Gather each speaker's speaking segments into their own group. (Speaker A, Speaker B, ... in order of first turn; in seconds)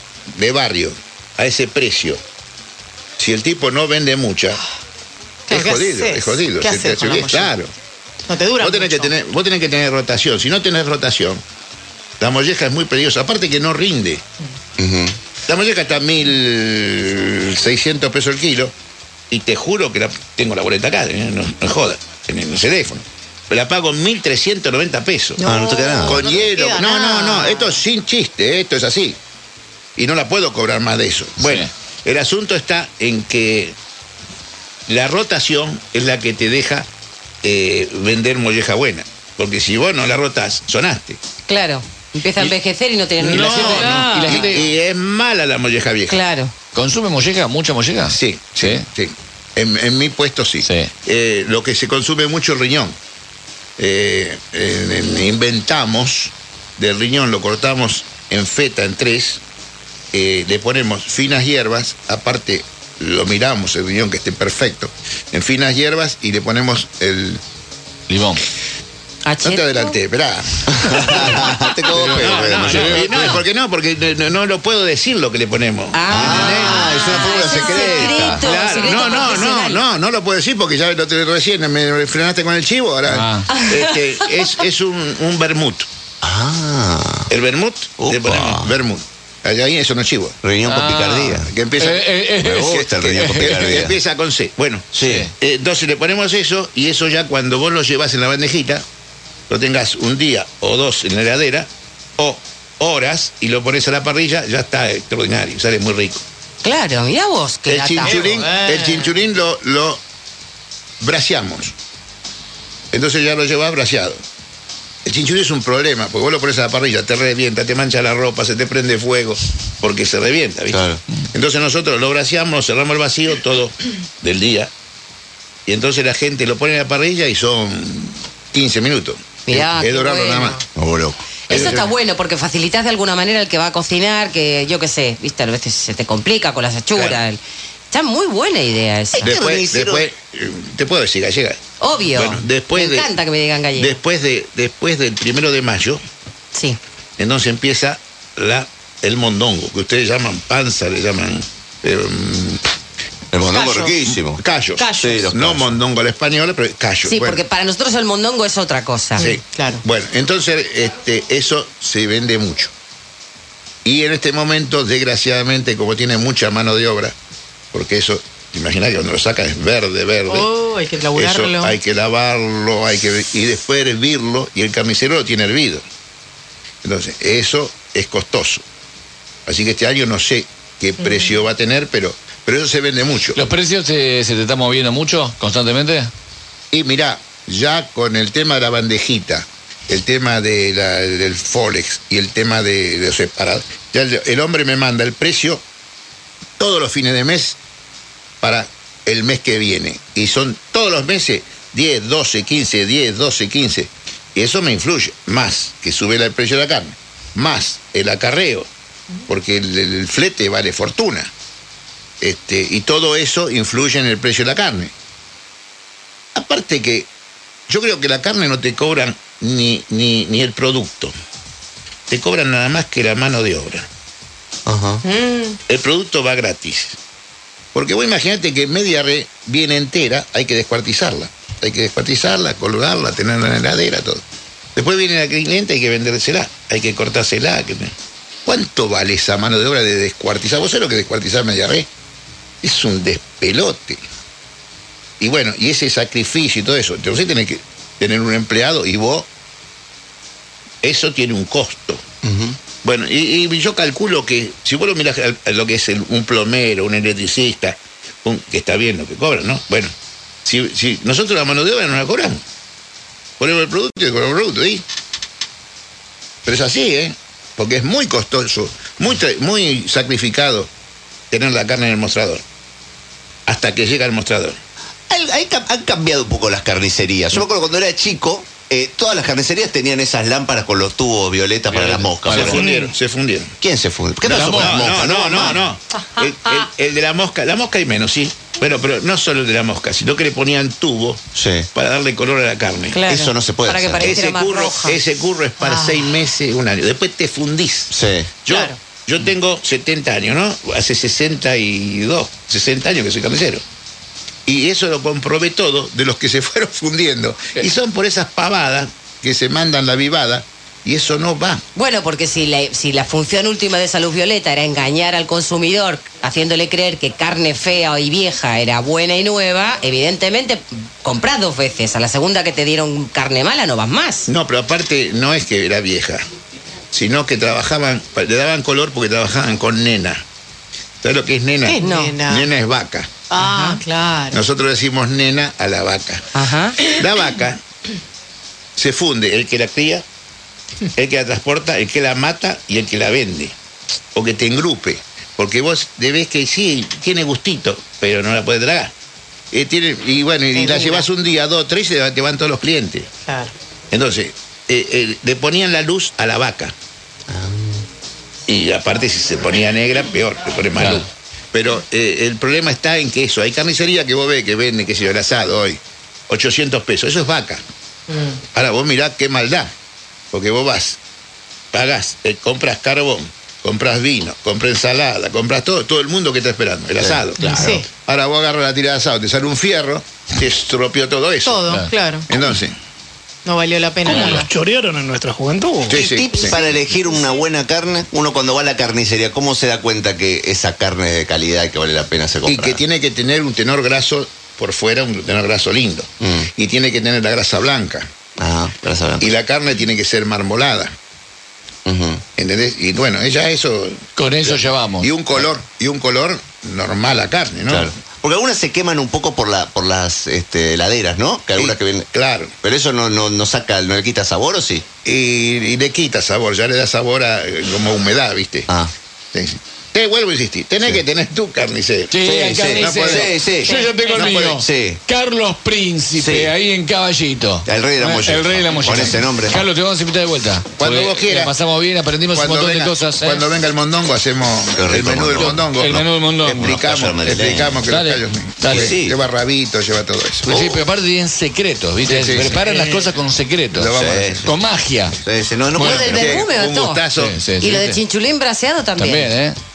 Speaker A: 0.3-2.2, 3.2-4.6, 5.5-7.7, 8.6-11.4, 12.2-14.2, 15.5-18.7, 19.3-25.4, 26.1-29.2, 30.0-33.8, 34.9-36.9, 37.4-41.2, 43.2-46.2, 48.1-53.0, 53.8-59.4, 60.1-67.4, 69.4-71.6, 72.1-77.0, 77.7-85.9, 87.3-90.4, 91.4-92.1, 92.7-98.8, 99.5-106.2, 107.7-110.0, 111.0-111.8, 112.9-114.2, 115.0-120.8, 121.3-124.7, 125.7-130.6, 131.5-131.9, 136.9-137.2, 139.2-141.6, 142.1-143.1, 143.7-146.0, 147.2-152.6, 154.1-157.4, 159.2-162.7, 163.8-167.2, 167.7-170.5, 171.1-175.8, 176.8-178.6, 179.5-183.4, 186.7-195.6, 196.6-197.6, 198.4-208.7, 209.3-211.3, 212.2-214.9, 216.3-217.1, 217.7-221.1, 222.1-223.9, 225.7-227.0, 227.7-234.2, 234.8-237.9, 238.5-241.9, 242.6-244.0, 245.2-249.3, 250.8-252.0, 252.8-259.9, 260.4-262.4, 263.4-264.9, 266.4-270.7, 271.3-272.4, 273.5-274.6, 282.3-283.6, 284.2-291.2, 291.8-293.0, 294.0-297.9, 298.4-303.6, 304.5-311.6, 324.3-326.2, 326.9-330.2, 331.0-333.1, 334.3-336.2, 336.8-337.6, 338.8-340.1, 341.0-343.6, 344.1-348.9, 349.5-353.1, 353.9-356.8, 358.5-367.6, 368.5-369.7, 370.3-371.0, 371.7-381.6, 382.3-382.8, 385.9-386.6, 392.5-398.1, 399.2-400.9, 402.4-407.9, 411.6-412.6, 415.0-418.7, 419.3-422.2, 422.7-423.3, 424.1-424.6, 430.8-431.6, 432.3-440.6, 442.0-442.8, 443.8-444.5, 446.1-447.4
Speaker B: 5.5-7.5, 8.3-9.1, 25.4-27.8, 43.8-44.4, 108.0-109.1, 153.5-153.9, 159.2-159.8, 170.3-171.8, 181.0-181.3, 225.1-225.6, 295.6-296.1, 298.5-298.8, 331.6-332.5, 333.3-334.4, 350.6-351.1, 353.3-353.5, 368.1-368.4, 377.4-377.9, 381.4-382.3, 383.4-384.5
Speaker C: 14.8-15.2, 25.4-26.2, 70.7-73.4, 76.1-78.5, 86.2-87.3, 88.0-88.8, 90.4-91.5, 92.4-94.0, 94.9-95.3, 120.7-121.0, 130.8-131.8, 139.1-140.1, 153.3-154.4, 155.0-155.8, 224.7-225.0, 252.2-252.6, 275.1-282.7, 283.6-285.6, 291.4-291.7, 293.1-294.2, 297.9-298.4, 357.3-357.9, 377.0-377.8, 385.9-392.8, 396.2-396.5, 398.4-399.3, 401.9-402.2, 407.7-412.1, 412.6-414.9, 422.2-423.8, 424.4-425.0, 426.2-426.5, 427.7-429.6, 434.7-437.8, 438.6-439.2, 440.5-440.8, 443.9-444.5, 445.2-446.4
Speaker D: 31.4-31.7, 43.2-44.7, 46.7-48.9, 50.6-50.9, 68.1-68.4, 71.9-73.4, 83.1-83.5, 90.7-93.8, 95.0-95.3, 183.4-186.1, 281.7-282.6, 284.2-284.8, 360.8-361.1, 384.1-384.5, 404.2-405.1, 422.1-433.4, 435.4-436.8, 437.9-439.0, 440.5-443.9, 444.4-445.2, 445.8-446.1, 447.2-448.0, 449.0-449.6
Speaker E: 41.5-44.4, 46.1-46.5, 69.2-69.9, 75.9-79.8, 83.5-84.3, 106.6-108.2, 129.5-130.6, 131.5-137.4, 137.9-139.3, 141.8-144.0, 146.5-146.8, 154.8-155.3, 157.1-159.3, 292.9-295.0, 311.8-324.3, 331.8-332.2, 333.4-333.8, 336.4-336.8, 445.8-447.0, 447.6-449.3
Speaker F: 282.6-282.9, 384.1-386.0